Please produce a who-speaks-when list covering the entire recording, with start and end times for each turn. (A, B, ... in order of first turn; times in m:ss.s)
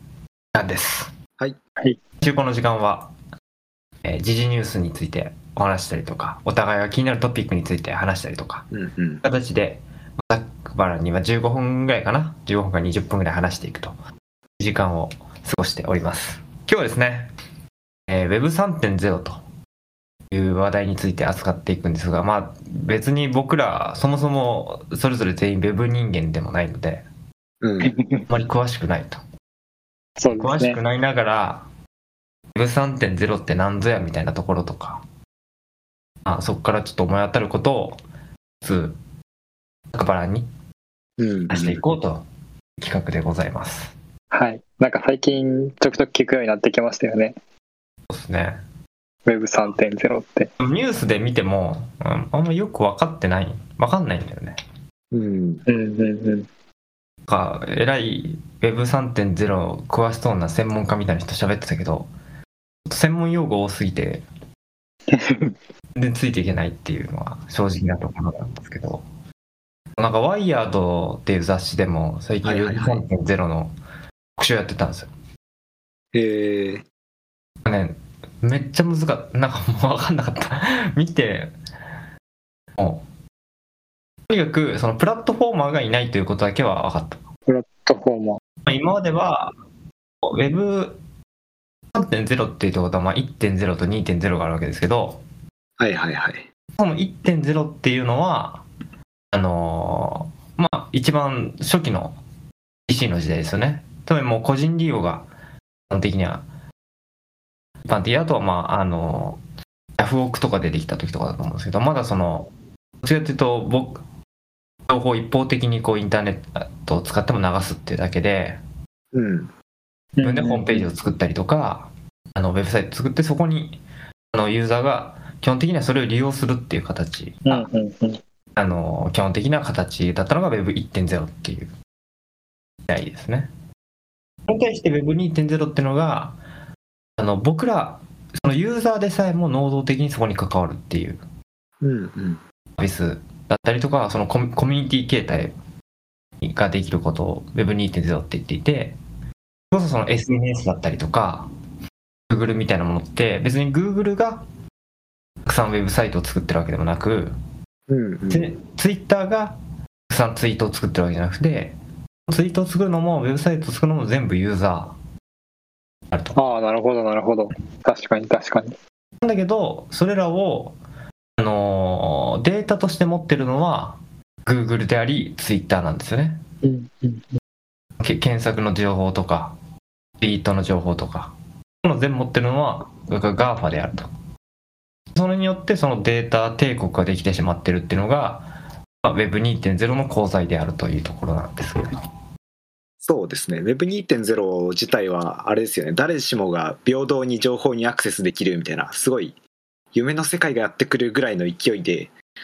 0:00.5-0:01.1 A
0:02.2-0:03.1 A
0:04.0-0:08.7 A
0:08.7-0:09.2 B
0:09.2-0:13.9 A
0:14.6-0:17.3 A
0:18.1-0:19.4 A
0:20.3-0:27.0 A
0:27.6-0:27.9 B
0:27.8-0:28.2 C
0:28.3-0:29.2 A
0:30.2-0:30.8 C
0:30.3-0:31.6 A
0:32.5-0:35.0 A
0:36.2-0:38.0 A
0:38.6-0:39.0 A
0:39.9-0:40.5 A
0:41.2-0:41.8 B
0:41.5-0:42.2 A
0:42.8-0:43.9 A
0:44.3-0:47.3 C
0:48.1-0:48.6 A
0:49.2-0:50.5 C
0:50.6-0:54.6 A
0:55.1-0:55.6 B
0:55.7-0:56.5 C
0:57.3-1:02.1 A
1:02.9-1:04.2 A
1:05.1-1:05.5 C
1:06.0-1:09.0 A
1:10.0-1:13.7 A
1:12.4-1:13.0 B
1:14.4-1:15.1 A
1:16.1-1:16.8 B
1:17.6-1:21.5 A
1:22.8-1:23.0 A
1:24.3-1:27.2 A
1:27.5-1:28.4 C
1:28.6-1:29.5 A
1:30.2-1:31.0 A
1:31.9-1:35.2 A
1:35.8-1:36.4 B
1:36.8-1:38.6 A
1:39.3-1:42.2 A
1:42.9-1:45.3 A
1:45.9-1:46.4 A
1:47.8-1:49.4 A
1:50.0-1:52.5 A
1:53.0-1:54.0 A
1:54.9-1:58.6 A
1:59.1-1:59.5 B
2:00.2-2:00.9 C
2:00.2-2:03.8 A
2:04.3-2:07.7 A
2:07.4-2:08.2 C
2:08.6-2:11.7 A
2:12.8-2:13.5 A
2:14.5-2:16.4 A
2:17.2-2:21.2 A
2:21.8-2:22.4 B
2:22.8-2:25.5 A
2:26.4-2:29.0 A
2:29.7-2:31.5 A
2:32.3-2:34.4 A
2:35.4-2:37.3 A
2:37.9-2:38.5 B
2:38.3-2:39.6 A
2:40.1-2:41.7 A
2:42.3-2:44.9 A
2:46.1-2:46.4 A
2:46.3-2:48.8 C
2:49.2-2:50.8 A
2:51.4-2:56.4 A
2:56.6-2:57.2 C
2:58.0-2:59.6 A
3:00.2-3:04.1 A
3:05.1-3:08.5 A
3:09.0-3:11.8 A
3:13.0-3:19.4 B
3:19.9-3:22.1 B